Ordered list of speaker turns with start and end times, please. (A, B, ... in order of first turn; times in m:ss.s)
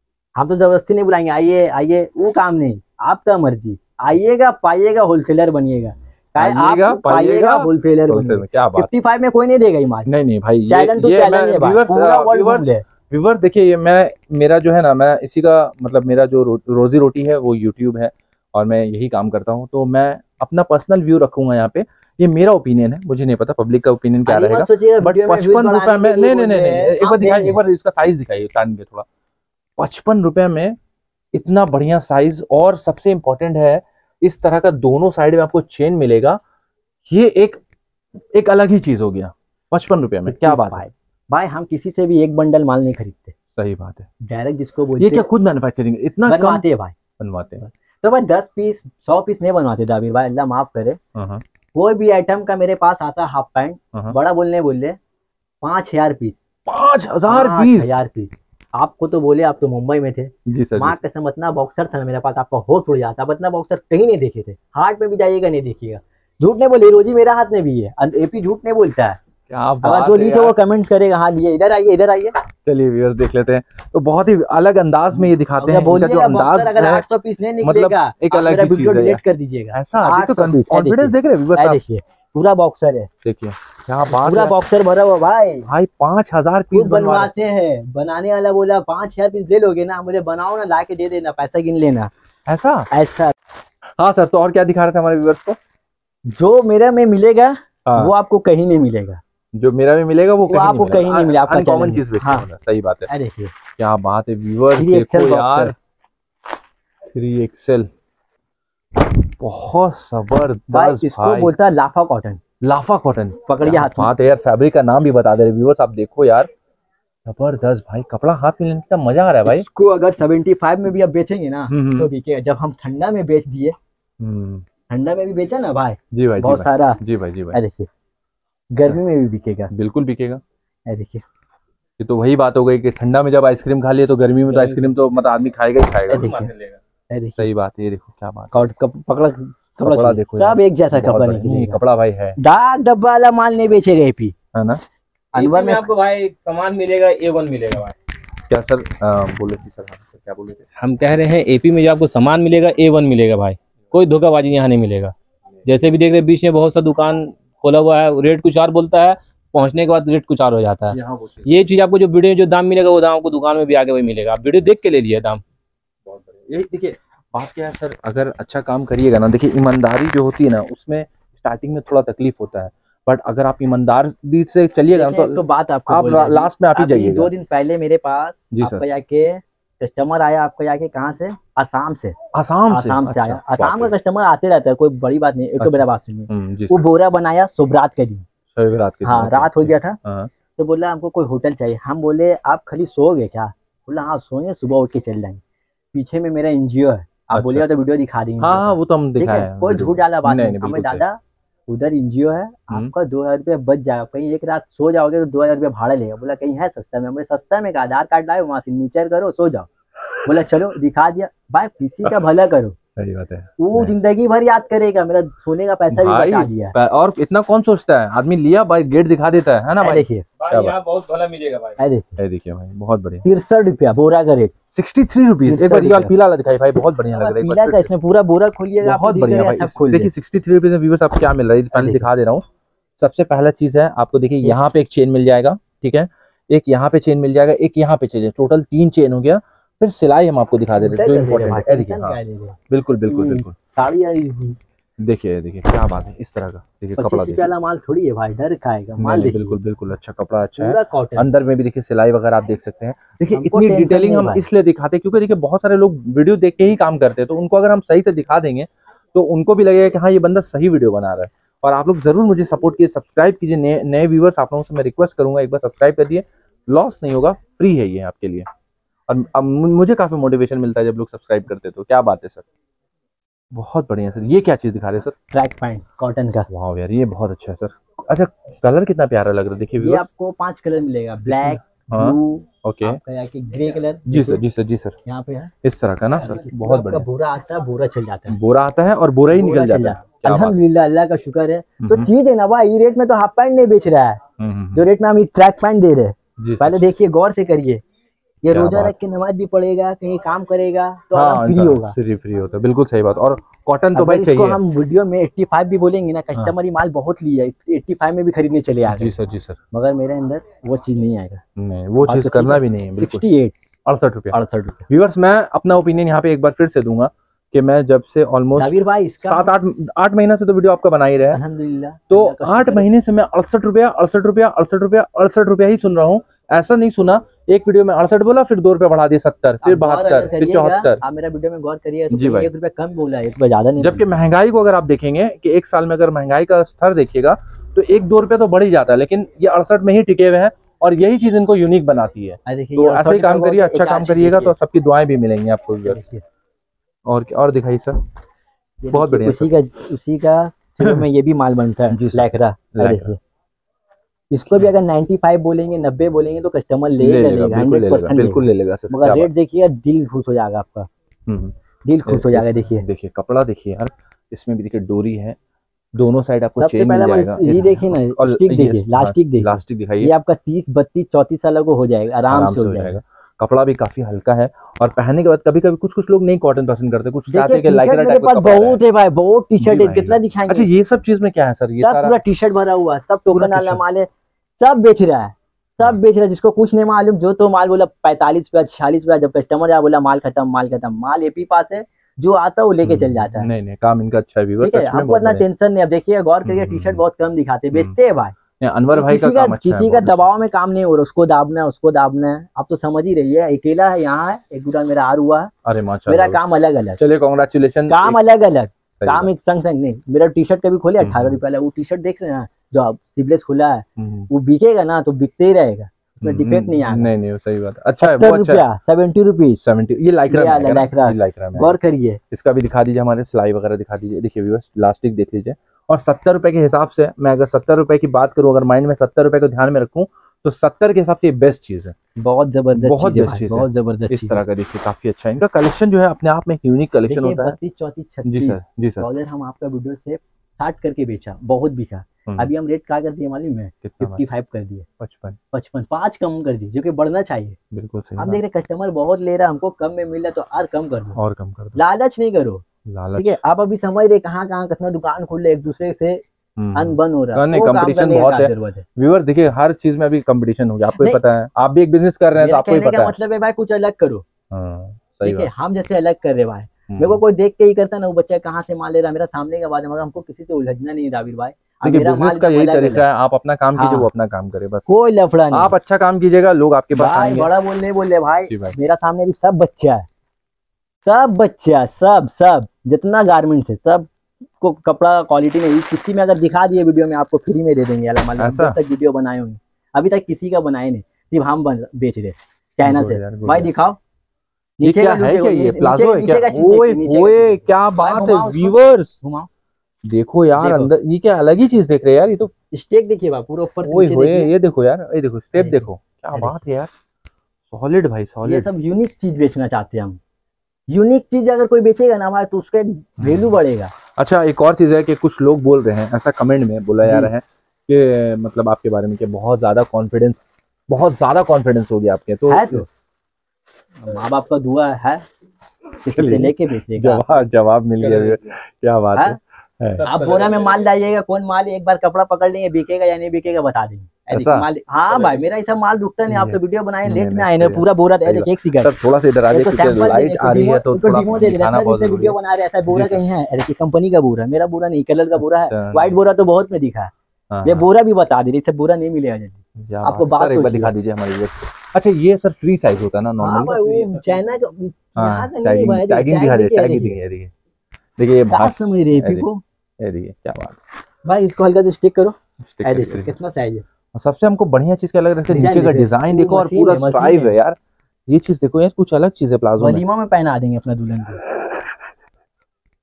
0:00.4-0:10.1 A
0:06.4-0:08.9 B
0:10.1-0:29.1 B
0:10.7-0:12.8 A
0:24.3-0:27.6 A
0:29.8-0:30.8 B
0:31.3-0:36.4 B
0:37.0-0:37.6 B
0:38.3-0:40.8 B
0:40.3-0:43.4 A
0:43.6-0:44.1 B
0:44.2-0:45.3 A
0:45.0-0:46.6 B
0:46.3-0:47.0 A
0:47.2-0:47.6 B
0:48.0-0:51.0 A
0:51.2-0:51.4 B
0:51.7-0:55.0 A
0:55.6-0:56.4 A
0:56.7-0:58.0 B
0:57.3-1:09.2 A
1:00.5-1:01.0 B
1:09.5-1:10.6 B
1:09.8-1:12.3 A
1:12.6-1:17.1 B
1:15.2-1:23.1 A
1:17.6-1:19.2 B
1:19.7-1:21.8 B
1:23.2-1:24.6 B
1:24.1-1:25.7 A
1:25.7-1:27.3 B
1:26.7-1:32.1 A
1:32.5-1:32.9 B
1:32.9-1:33.3 A
1:34.0-1:35.6 B
1:36.3-1:39.2 A
1:37.9-1:38.1 B
1:39.5-1:43.1 B
1:40.5-1:42.5 A
1:43.1-1:43.5 A
1:43.8-1:45.7 B
1:44.8-1:45.8 A
1:47.1-1:47.9 B
1:49.3-1:51.5 B
1:50.7-1:52.4 A
1:52.6-1:56.5 B
1:53.5-1:54.1 A
1:57.2-1:59.7 B
1:59.4-2:03.8 A
2:01.7-2:02.1 B
2:04.2-2:04.6 B
2:04.9-2:07.0 A
2:06.1-2:07.6 B
2:07.5-2:07.9 A
2:08.7-2:09.7 A
2:09.7-2:10.4 B
2:10.9-2:11.2 A
2:12.0-2:16.3 B
2:14.5-2:14.9 C
2:16.1-2:16.5 A
2:16.1-2:16.8 C
2:17.1-2:17.5 A
2:17.4-2:18.5 B
2:18.5-2:21.8 A
2:19.8-2:22.4 B
2:22.4-2:24.4 A
2:24.5-2:24.8 B
2:25.4-2:25.9 A
2:25.4-2:28.0 C
2:28.5-2:30.7 B
2:30.8-2:45.4 C
2:40.9-2:41.5 B
2:46.1-2:57.3 B
2:54.9-3:02.2 A
2:58.5-2:58.8 B
3:02.3-3:03.9 B
3:02.7-3:08.3 A
3:05.6-3:06.8 B
3:08.5-3:10.3 B
3:09.0-3:10.0 A
3:10.6-3:15.4 A
3:15.9-3:29.7 A
3:17.3-3:17.6 B
3:18.4-3:21.0 B
3:30.2-3:32.8 A
3:33.0-3:33.9 B
3:33.6-3:36.8 A
3:35.9-3:40.8 B
3:39.8-3:40.3 A
3:40.4-3:41.8 C
3:41.8-3:42.2 A
3:42.2-3:43.2 B
3:43.2-3:44.5 A
3:44.7-3:47.9 B
3:45.5-3:46.1 A
3:47.1-3:50.1 A
3:48.8-3:52.5 B
3:51.7-3:52.1 A
3:53.0-4:03.6 B
4:00.8-4:04.6 A
4:05.0-4:07.5 B
4:07.0-4:09.6 A
4:09.0-4:28.5 B
4:10.6-4:11.3 A
4:13.3-4:14.4 A
4:29.1-4:32.4 B
4:33.5-4:35.2 B
4:35.3-4:36.5 A
4:36.5-4:40.1 B
4:39.8-4:44.4 A
4:41.3-4:43.0 B
4:44.1-4:45.0 B
4:45.0-4:45.5 A
4:45.6-4:47.1 B
4:46.4-4:48.4 A
4:48.3-4:50.6 B
4:49.3-4:54.2 A
4:51.8-4:52.1 B
4:54.4-4:54.8 B
4:54.7-4:57.8 A
4:56.4-4:56.9 B
4:58.4-5:02.0 A
4:58.5-4:58.9 B
5:01.1-5:04.6 B
5:03.9-5:09.1 A
5:08.9-5:09.6 B
5:09.7-5:11.4 A
5:11.6-5:13.2 B
5:12.0-5:13.6 A
5:13.8-5:21.4 B
5:14.3-5:14.9 A
5:18.6-5:19.5 A
5:21.3-5:22.9 A
5:22.1-5:31.0 B
5:29.6-5:34.0 A
5:32.1-5:32.5 B
5:33.8-5:46.0 B
5:42.5-5:44.5 A
5:45.8-5:46.2 A
5:47.1-5:48.0 B
5:48.8-5:53.2 A
5:48.9-5:49.6 B
5:51.9-5:53.2 B
5:54.3-6:00.9 A
5:57.0-5:59.3 B
6:01.3-6:01.5 B
6:01.8-6:02.9 A
6:02.1-6:05.4 B
6:05.9-6:10.1 B
6:06.6-6:13.0 A
6:12.3-6:18.8 B
6:17.3-6:20.7 A
6:19.6-6:22.2 B
6:21.8-6:33.5 A
6:23.3-6:23.8 B
6:32.8-6:35.4 B
6:34.6-6:38.4 A
6:36.4-6:37.0 B
6:38.6-6:40.2 B
6:38.9-6:45.5 A
6:45.6-6:46.4 B
6:46.1-6:47.0 A
6:47.0-6:48.2 B
6:47.9-6:57.1 A
6:49.0-6:49.3 B
6:51.0-6:51.4 B
6:54.0-6:54.3 B
6:56.2-6:58.6 B
6:58.0-6:59.6 A
6:59.6-7:01.8 B
7:00.3-7:02.2 A
7:02.3-7:12.0 B
7:12.2-7:14.4 A
7:12.8-7:17.6 B
7:17.1-7:24.9 A
7:18.2-7:19.1 B
7:23.8-7:24.2 B
7:25.0-7:25.4 B
7:25.5-7:27.6 A
7:27.7-7:28.4 B
7:28.2-7:31.2 A
7:31.2-7:31.8 B
7:31.8-7:32.6 A
7:32.9-7:33.4 B
7:33.2-7:38.8 A
7:36.6-7:43.2 B
7:41.0-7:41.2 A
7:42.4-7:44.2 A
7:44.5-7:45.5 B
7:45.2-7:53.1 A
7:46.9-7:47.2 B
7:51.8-7:54.9 B
7:53.8-7:54.1 A
7:54.9-7:55.7 A
7:55.5-7:57.5 B
7:57.0-8:00.1 A
7:58.5-7:58.8 B
8:01.1-8:04.1 A
8:04.6-8:14.0 A
8:08.4-8:08.8 B
8:12.8-8:13.7 B
8:14.8-8:19.5 A
8:14.8-8:19.2 B
8:20.0-8:22.5 B
8:20.6-8:20.9 A
8:22.7-8:24.5 A
8:23.8-8:26.9 B
8:25.6-8:26.6 A
8:27.7-8:28.7 B
8:28.4-8:30.2 A
8:30.9-8:33.9 A
8:33.2-8:33.5 B
8:34.2-8:42.8 B
8:37.0-8:37.3 A
8:42.5-8:42.9 A
8:44.0-8:45.2 A
8:46.0-8:47.5 A
8:46.1-8:50.1 B
8:48.0-8:48.4 C
8:50.0-8:50.8 C
8:50.0-8:58.9 A
8:54.3-8:54.7 B
8:56.3-9:03.2 B
8:59.5-9:07.1 A
9:05.4-9:06.2 B
9:07.5-9:07.9 B
9:07.6-9:10.9 A
9:09.8-9:14.2 B
9:13.4-9:17.2 A
9:15.2-9:17.5 B
9:18.2-9:19.5 B
9:18.5-9:19.6 A
9:20.0-9:20.8 B
9:21.3-9:23.8 A
9:22.6-9:23.3 B
9:24.1-9:30.0 B
9:25.5-9:27.5 A
9:29.8-9:31.4 A
9:31.5-9:32.0 B